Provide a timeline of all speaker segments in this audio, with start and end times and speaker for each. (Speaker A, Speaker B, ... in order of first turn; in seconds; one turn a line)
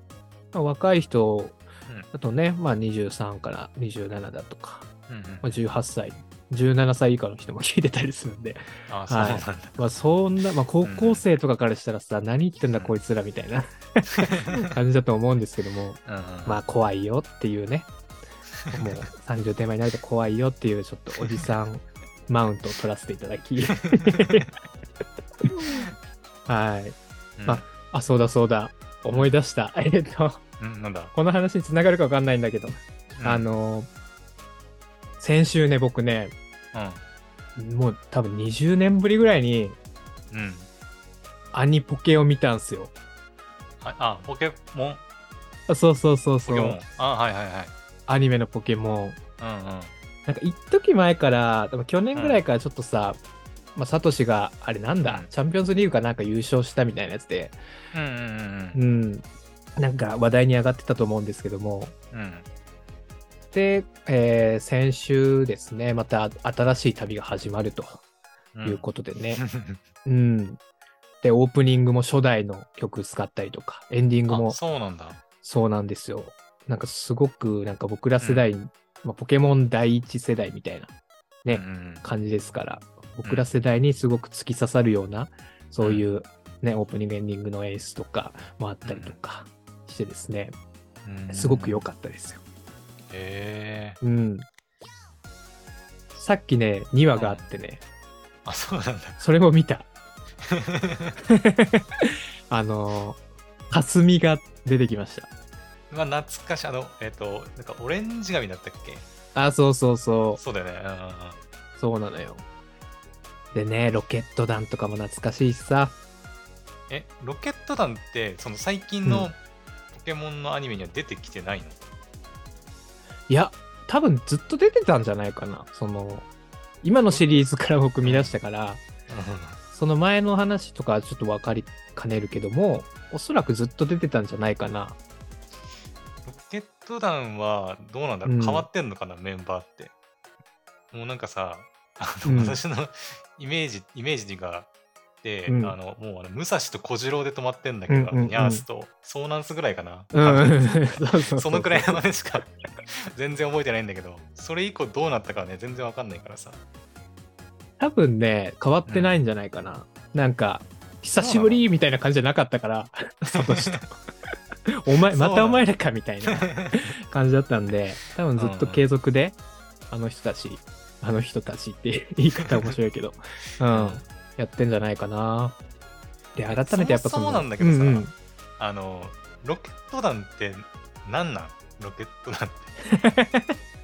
Speaker A: 0.5-1.6
Speaker A: 2.1-4.9
Speaker B: 5.1-5.6
Speaker A: 5.4-17.9
Speaker B: 8.9-9.8
Speaker B: 10.8-11.2
Speaker B: 14.2-14.7
Speaker B: 16.1-16.6
Speaker B: 18.6-19.0
Speaker A: 18.7-24.5
Speaker B: 23.9-24.5
Speaker A: 25.4-25.8
Speaker A: 26.5-30.4
Speaker B: 27.4-27.6
Speaker B: 29.1-29.4
Speaker B: 30.6-31.1
Speaker A: 31.1-33.9
Speaker B: 33.2-33.5
Speaker A: 35.2-36.3
Speaker B: 36.7-37.0
Speaker A: 37.5-39.8
Speaker B: 40.3-40.7
Speaker A: 41.5-42.9
Speaker B: 43.8-45.0
Speaker A: 45.7-46.8
Speaker B: 46.4-47.7
Speaker A: 48.1-49.2
Speaker B: 49.4-49.9
Speaker A: 50.2-53.2
Speaker B: 52.1-52.4
Speaker A: 53.8-57.6
Speaker B: 55.0-55.3
Speaker B: 57.9-58.8
Speaker A: 58.7-59.2
Speaker A: 59.8-61.9
Speaker B: 62.1-62.5
Speaker A: 63.5-68.0
Speaker B: 68.5-69.8
Speaker A: 68.7-69.4
Speaker A: 70.0-70.6
Speaker A: 71.2-74.6
Speaker B: 74.3-75.2
Speaker A: 75.4-80.9
Speaker A: 81.4-90.5
Speaker B: 81.5-82.0
Speaker B: 85.8-86.1
Speaker B: 88.8-89.2
Speaker B: 91.0-91.8
Speaker A: 91.3-92.4
Speaker B: 93.1-94.0
Speaker A: 94.0-94.5
Speaker A: 96.2-97.8
Speaker B: 97.1-97.5
Speaker B: 98.4-99.2
Speaker A: 99.2-99.9
Speaker B: 100.4-101.2
Speaker A: 101.3-105.3
Speaker B: 105.9-109.0
Speaker A: 109.3-110.4
Speaker B: 110.3-111.4
Speaker A: 111.8-112.4
Speaker A: 113.5-115.9
Speaker B: 116.9-119.4
Speaker A: 119.0-119.3
Speaker B: 119.9-121.8
Speaker A: 123.3-126.3
Speaker A: 126.8-128.8
Speaker B: 127.1-127.4
Speaker B: 128.0-128.3
Speaker B: 129.1-129.6
Speaker A: 129.7-135.0
Speaker B: 136.2-139.9
Speaker A: 138.2-138.7
Speaker B: 140.9-144.7
Speaker A: 142.2-142.6
Speaker B: 145.2-156.6
Speaker A: 145.5-145.8
Speaker A: 147.9-148.7
Speaker A: 150.1-152.0
Speaker A: 157.8-163.9
Speaker B: 158.9-159.2
Speaker B: 161.2-161.6
Speaker B: 163.3-163.8
Speaker A: 164.7-169.4
Speaker B: 165.0-165.6
Speaker B: 166.3-166.9
Speaker B: 168.3-168.8
Speaker A: 169.9-175.6
Speaker B: 173.7-174.0
Speaker A: 176.3-178.1
Speaker B: 176.5-182.7
Speaker A: 182.8-183.5